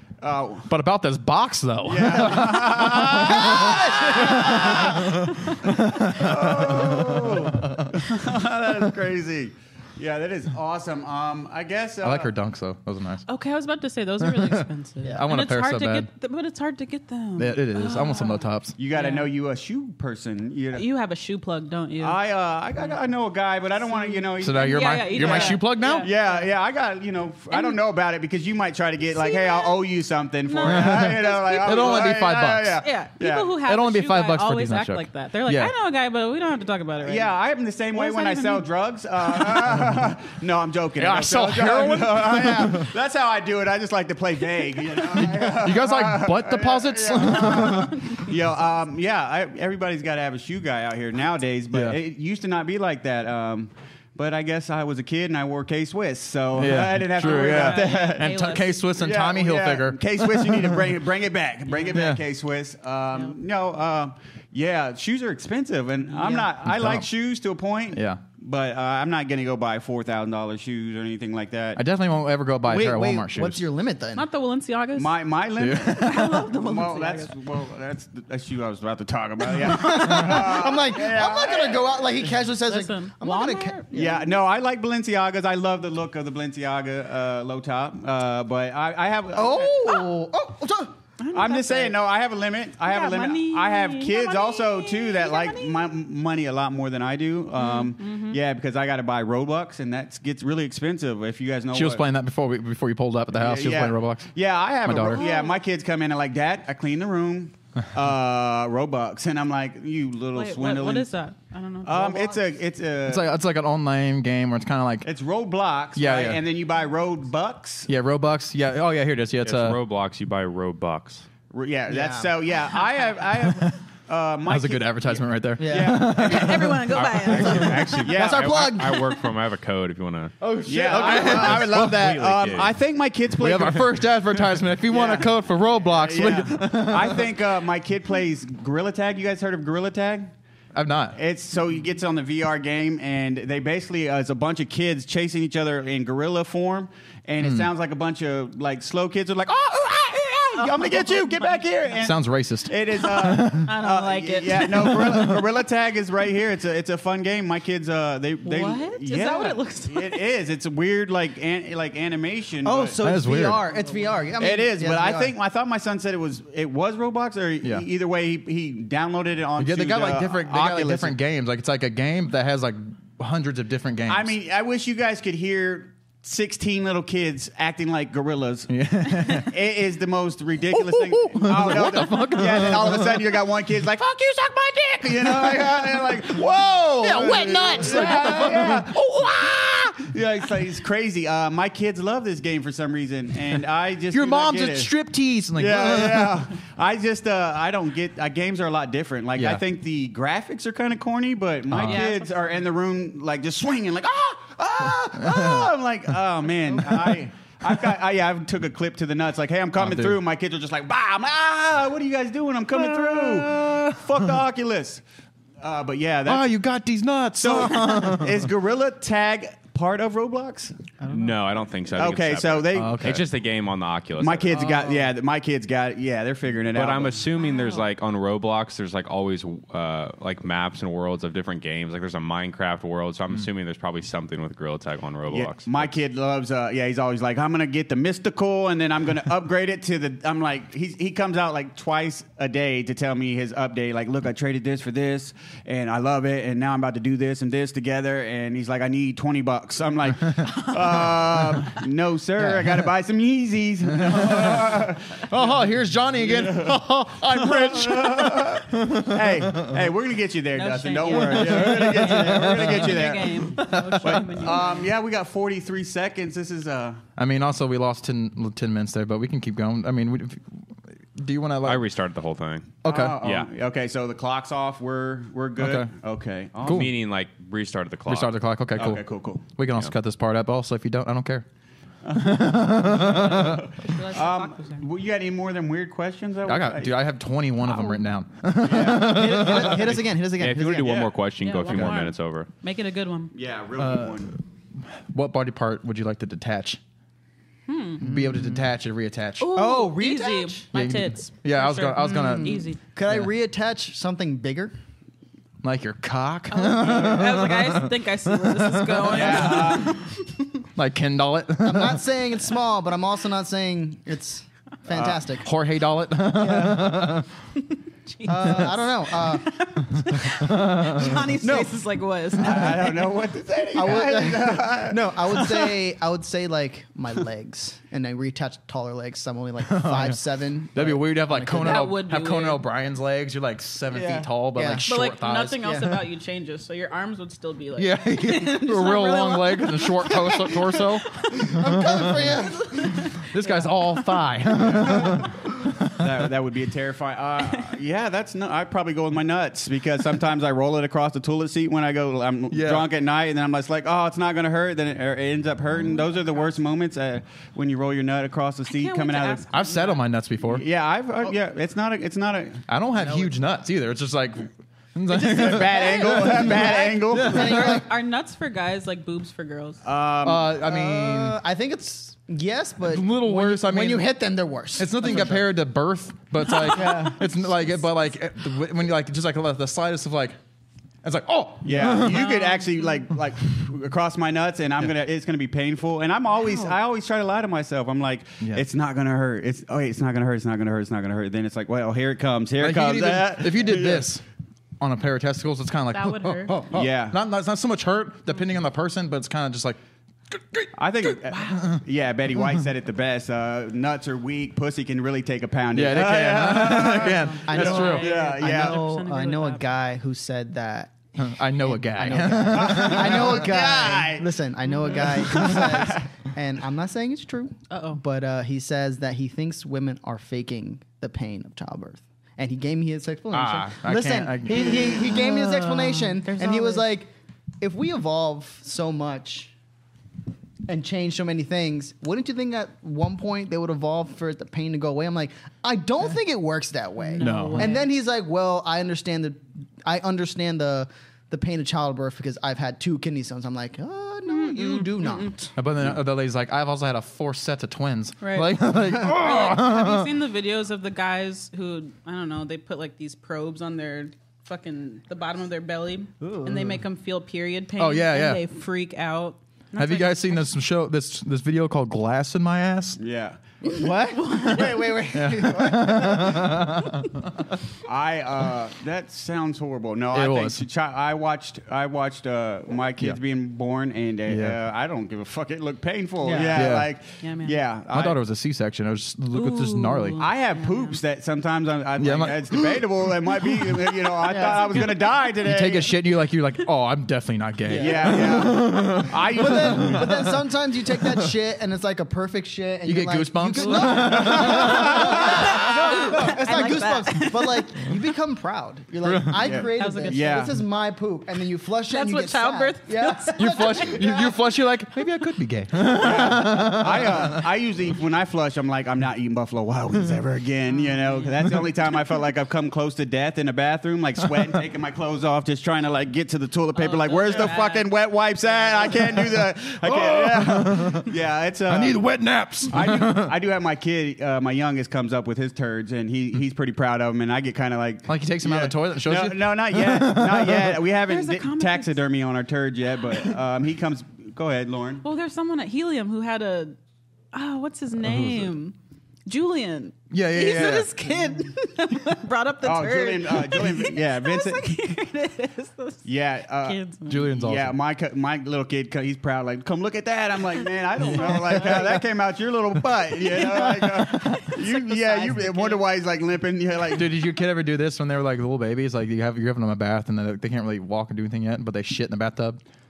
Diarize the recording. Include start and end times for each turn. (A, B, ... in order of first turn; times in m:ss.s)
0:00.2-0:00.7 A
0:00.7-0:08.0 B
0:01.8-0:05.1 A
0:03.1-0:05.1 C
0:05.8-0:12.3 A
0:12.0-0:13.2 B
0:13.3-0:19.3 D
0:14.2-0:16.1 B
0:17.4-0:18.7 B
0:18.8-0:20.8 A
0:20.7-0:22.2 D
0:22.0-0:33.6 A
0:23.8-0:26.5 D
0:24.4-0:26.1 B
0:27.5-0:27.8 D
0:29.0-0:29.8 D
0:30.4-0:32.2 D
0:30.6-0:32.8 B
0:32.8-0:37.3 D
0:33.6-0:35.7 B
0:37.0-1:11.8 A
0:37.9-0:38.7 D
0:39.2-0:39.7 D
0:39.7-0:40.0 B
0:41.0-0:42.9 B
0:45.0-0:48.1 B
0:47.5-0:48.2 D
0:51.7-0:52.0 B
0:56.5-1:00.9 B
0:57.2-0:58.8 D
1:01.7-1:02.1 D
1:01.9-1:02.2 B
1:06.6-1:07.1 B
1:07.9-1:08.2 B
1:11.8-1:13.6 B
1:12.6-1:14.2 C
1:14.1-1:15.2 D
1:15.0-1:22.0 A
1:15.6-1:16.4 B
1:15.8-1:17.3 D
1:19.6-1:24.2 C
1:22.6-1:24.1 D
1:23.9-1:30.0 A
1:29.3-1:30.9 C
1:31.2-1:32.0 D
1:31.3-1:42.0 A
1:32.8-1:35.9 D
1:37.5-1:38.4 D
1:41.7-1:44.3 B
1:43.4-1:51.1 A
1:44.8-1:45.2 B
1:45.1-1:45.6 D
1:50.3-1:52.4 D
1:51.8-1:53.3 A
1:53.0-1:55.1 B
1:55.0-1:57.9 A
1:55.9-1:56.4 B
1:57.9-1:59.8 B
1:59.4-2:01.3 E
2:01.5-2:06.8 A
2:01.9-2:02.5 C
2:03.5-2:03.8 B
2:04.5-2:07.9 B
2:05.6-2:06.1 C
2:06.1-2:07.9 D
2:06.9-2:12.8 E
2:08.0-2:08.8 A
2:08.1-2:09.2 C
2:10.4-2:12.2 B
2:10.6-2:14.1 A
2:13.4-2:17.3 B
2:14.9-2:20.3 A
2:20.7-2:21.2 B
2:21.1-2:42.9 A
2:27.4-2:27.7 B
2:30.6-2:31.6 D
2:32.0-2:33.7 B
2:33.6-2:35.3 D
2:34.8-2:35.4 B
2:38.4-2:40.2 D
2:42.6-2:45.3 C
2:43.0-2:43.6 B
2:43.7-2:44.0 D
2:44.4-2:51.2 A
2:49.6-2:54.3 B
2:54.1-3:14.9 A
2:58.7-2:59.5 B
3:00.7-3:03.2 B
3:07.0-3:10.0 B
3:14.1-3:16.4 B
3:15.5-3:35.0 A
3:19.4-3:19.6 B
3:21.7-3:22.0 B
3:21.8-3:22.5 D
3:25.2-3:25.7 B
3:29.8-3:30.2 B
3:32.7-3:34.4 B
3:35.6-3:36.6 A
3:36.2-3:38.4 B
3:37.4-3:41.0 A
3:41.0-3:41.3 C
3:41.1-3:44.7 E
3:41.9-3:43.2 A
3:42.7-3:43.3 B
3:44.2-3:47.3 A
3:46.7-3:55.9 E
3:47.4-3:47.8 D
3:55.3-4:15.6 A
4:12.4-4:12.9 B
4:14.0-4:19.8 B
4:16.2-4:27.0 A
4:20.5-4:24.9 D
4:21.2-4:23.1 B
4:23.7-4:24.2 B
4:27.2-4:30.6 B
4:31.2-4:31.9 B
4:31.6-4:33.5 E
4:32.8-4:33.2 B
4:32.8-4:37.0 A
4:35.6-4:35.9 B
4:36.6-4:36.9 B
4:36.6-4:38.3 E
4:38.1-4:41.4 B
4:38.8-4:39.4 A
4:42.0-4:47.0 A
4:42.1-4:43.7 B
4:43.0-4:44.8 D
4:46.4-4:50.0 B
4:48.6-4:50.0 A
4:48.8-4:51.1 C
4:50.3-4:52.5 E
4:50.8-4:51.1 A
4:51.4-4:53.3 D
4:51.7-4:52.0 B
4:53.3-4:54.3 A
4:53.8-4:54.4 B
4:55.0-4:56.8 B
4:57.7-4:58.0 D
4:58.0-4:58.7 C
4:58.0-4:59.6 B
4:59.4-5:02.8 D
4:59.5-5:00.6 C
5:00.7-5:03.3 B
5:02.0-5:04.7 C
5:05.6-5:09.8 B
5:06.5-5:10.6 D
5:09.0-5:10.0 A
5:10.8-5:12.0 B
5:11.6-5:15.4 C
5:14.9-5:15.3 A
5:15.4-5:17.3 B
5:16.3-5:17.1 C
5:18.1-5:23.2 D
5:18.2-5:20.1 C
5:20.1-5:21.2 B
5:21.4-5:21.7 A
5:22.3-5:25.7 A
5:23.7-5:31.9 C
5:29.6-5:30.2 B
5:30.7-5:36.0 B
5:31.6-5:32.6 D
5:34.0-5:34.2 D
5:34.0-5:34.9 C
5:34.9-5:44.2 D
5:37.7-5:42.1 B
5:41.4-5:43.0 C
5:43.2-5:45.3 B
5:44.6-5:45.3 A
5:45.9-5:59.4 A
5:52.5-5:52.9 B
5:58.7-6:00.0 D
5:59.5-6:00.6 B
6:00.5-6:03.2 A
6:02.7-6:07.8 B
6:05.1-6:07.7 A
6:05.7-6:09.8 D
6:06.1-6:07.9 C
6:09.8-6:10.5 A
6:10.2-6:11.4 B
6:10.5-6:15.4 C
6:12.8-6:14.1 B
6:14.8-6:20.4 B
6:16.5-6:17.1 D
6:16.6-6:17.2 C
6:21.0-6:22.3 B
6:21.6-6:34.1 A
6:22.0-6:22.9 D
6:26.4-6:26.7 D
6:32.6-6:34.2 B
6:34.8-6:39.8 B
6:35.9-6:36.7 D
6:36.7-6:37.2 A
6:40.3-6:41.8 B
6:40.7-6:48.8 A
6:45.7-6:48.1 B
6:47.0-6:49.7 D
6:47.4-7:09.5 C
6:51.2-6:53.4 B
6:52.5-6:54.3 A
6:54.7-6:55.1 D
6:55.0-6:56.0 A
6:57.7-6:58.0 D
7:03.3-7:05.0 B
7:04.5-7:05.0 A
7:05.0-7:06.8 D
7:10.7-7:25.5 C
7:17.0-7:17.9 D
7:17.2-7:17.8 B
7:24.3-7:25.4 D
7:25.6-7:30.1 B
7:28.2-7:40.4 D
7:36.2-7:36.8 C
7:37.8-7:38.4 B
7:39.7-7:43.0 B
7:43.0-7:43.4 A
7:43.6-7:46.7 C
7:44.2-7:44.7 D
7:44.4-7:47.1 B
7:47.8-7:58.2 A
7:50.1-7:50.6 B
7:54.3-7:54.6 B
7:56.2-7:56.7 C
7:56.5-7:56.9 B
7:57.2-7:57.6 D
7:57.9-8:00.2 B
7:59.3-8:01.0 D
8:00.2-8:05.9 A
8:02.0-8:03.4 B
8:04.2-8:04.9 C
8:04.4-8:04.9 D
8:05.4-8:10.3 B
8:07.7-8:24.4 C
8:07.7-8:10.1 A
8:12.8-8:15.5 B
8:13.6-8:18.0 D
8:14.2-8:15.7 A
8:19.0-8:19.6 B
8:19.4-8:20.5 A
8:19.5-8:20.5 D
8:21.9-8:24.3 D
8:23.3-8:27.4 B
8:25.9-8:42.1 A
8:30.7-8:31.5 D
8:36.7-8:39.2 D
8:39.5-8:41.1 B
8:41.7-8:43.3 B
8:42.7-8:55.0 A
8:48.0-8:50.8 B
8:51.0-8:52.0 D
8:55.0-8:56.8 D
8:57.3-8:58.7 D
8:58.0-8:58.5 B
8:59.2-9:07.3 D
9:00.1-9:00.9 B
9:02.6-9:04.9 A
9:06.0-9:06.8 A
9:07.1-9:07.8 B
9:07.4-9:17.2 A
9:11.0-9:12.0 B
9:11.0-9:12.0 D
9:13.1-9:15.8 D
9:16.9-9:22.6 B